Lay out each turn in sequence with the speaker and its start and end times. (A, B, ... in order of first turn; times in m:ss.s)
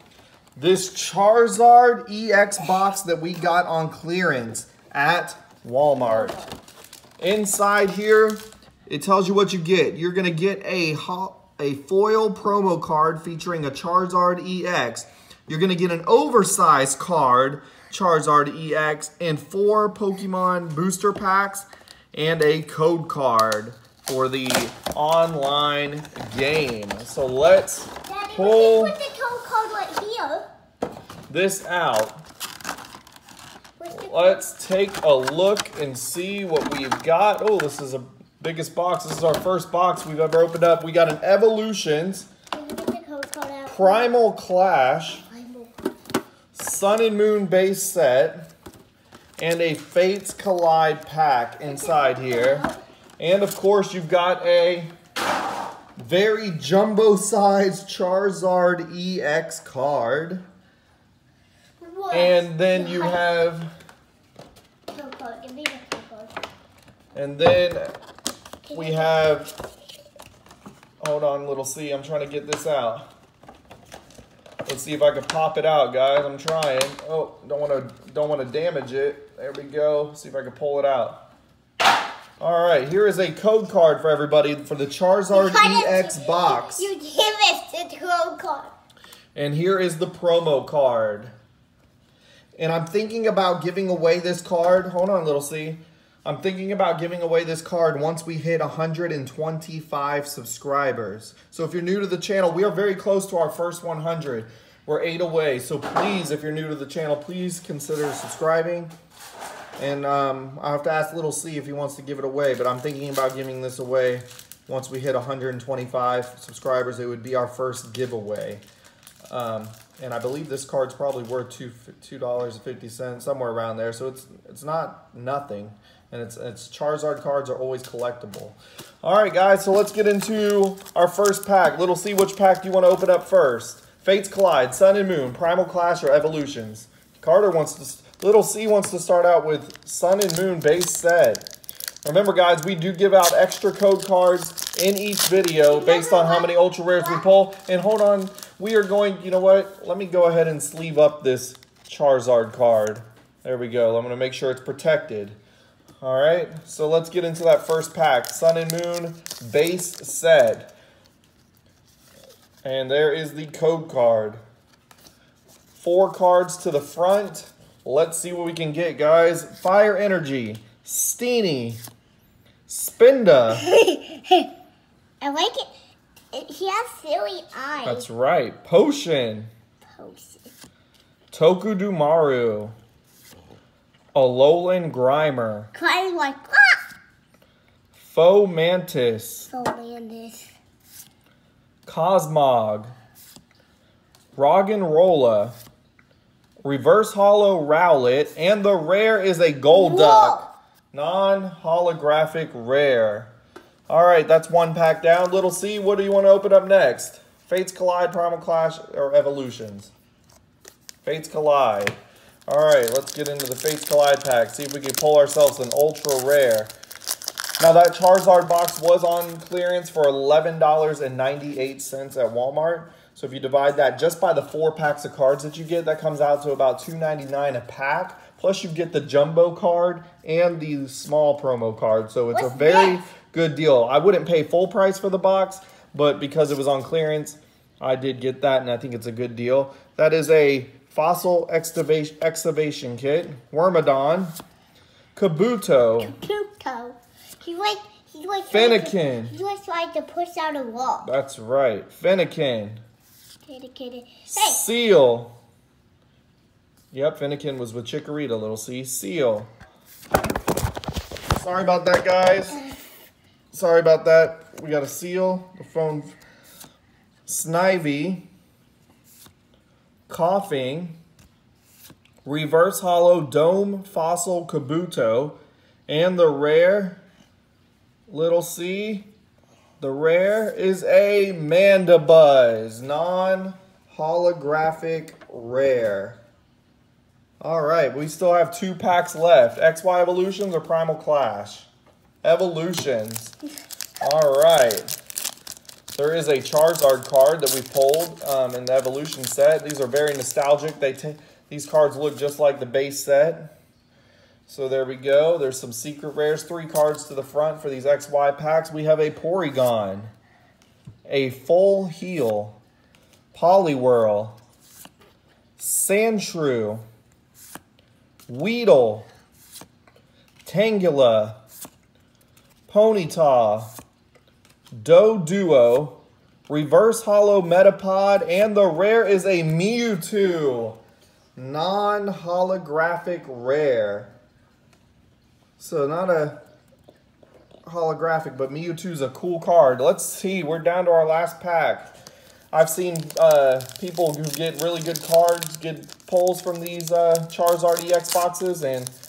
0:00.6-0:06.4 A
0:06.0-0:06.5 B
0:07.2-0:29.0 A
0:28.0-0:30.5 B
0:31.3-0:32.2 A
0:33.8-0:34.4 B
0:33.9-0:42.3 A
0:42.5-0:44.1 B
0:43.7-0:45.2 A
0:45.2-0:45.7 B
0:46.5-0:48.5 A
0:49.4-0:52.7 A
0:51.6-0:52.8 B
0:53.2-0:54.9 A
0:56.0-1:00.4 A
1:01.8-1:03.2 B
1:02.1-1:03.7 A
1:04.9-1:06.3 B
1:07.1-1:07.9 A
1:08.6-1:09.2 B
1:08.7-1:09.5 A
1:11.0-1:13.0 A
1:14.7-1:21.2 A
1:22.4-1:26.9 A
1:25.3-1:28.7 B
1:29.3-1:31.3 A
1:32.6-1:48.9 A
1:49.8-1:58.6 A
1:59.3-2:21.4 A
2:22.0-2:35.4 A
2:25.7-2:27.2 B
2:36.0-2:40.7 A
2:42.6-2:44.4 A
2:45.8-2:51.8 A
2:52.7-2:53.6 A
2:53.6-2:54.5 B
2:55.2-2:55.7 B
2:56.3-2:58.1 B
2:57.8-2:59.5 A
2:59.9-3:00.5 B
3:01.3-3:02.7 A
3:04.1-3:05.7 A
3:05.7-3:06.8 B
3:07.9-3:09.5 A
3:09.5-3:10.5 B
3:11.9-3:12.9 A
3:14.4-3:15.6 A
3:16.6-3:20.4 A
3:19.7-3:20.5 B
3:20.9-3:23.3 A
3:23.9-3:29.9 A
3:31.0-3:36.7 A
3:37.6-4:04.3 A
3:52.3-3:53.0 B
4:05.2-4:06.2 A
4:06.0-4:11.1 B
4:08.5-4:09.4 A
4:11.0-4:12.8 A
4:13.4-4:14.6 B
4:14.3-4:15.3 A
4:16.9-4:19.5 A
4:21.3-4:22.6 A
4:23.5-4:26.1 A
4:27.2-4:28.2 A
4:30.1-4:31.0 A
4:32.2-4:37.0 A
4:38.1-4:39.1 A
4:39.8-4:46.2 A
4:47.4-4:51.7 A
4:52.2-4:53.3 A
4:54.0-4:54.9 A
4:55.9-5:03.5 A
5:04.5-5:10.1 A
5:11.1-5:12.6 A
5:13.3-5:14.4 A
5:15.6-5:16.8 A
5:18.3-5:19.1 A
5:20.4-5:21.4 A
5:22.7-5:23.7 A
5:24.7-5:30.8 A
5:31.4-5:34.1 A
5:35.6-5:36.4 A
5:37.7-5:41.9 A
5:42.5-5:48.9 A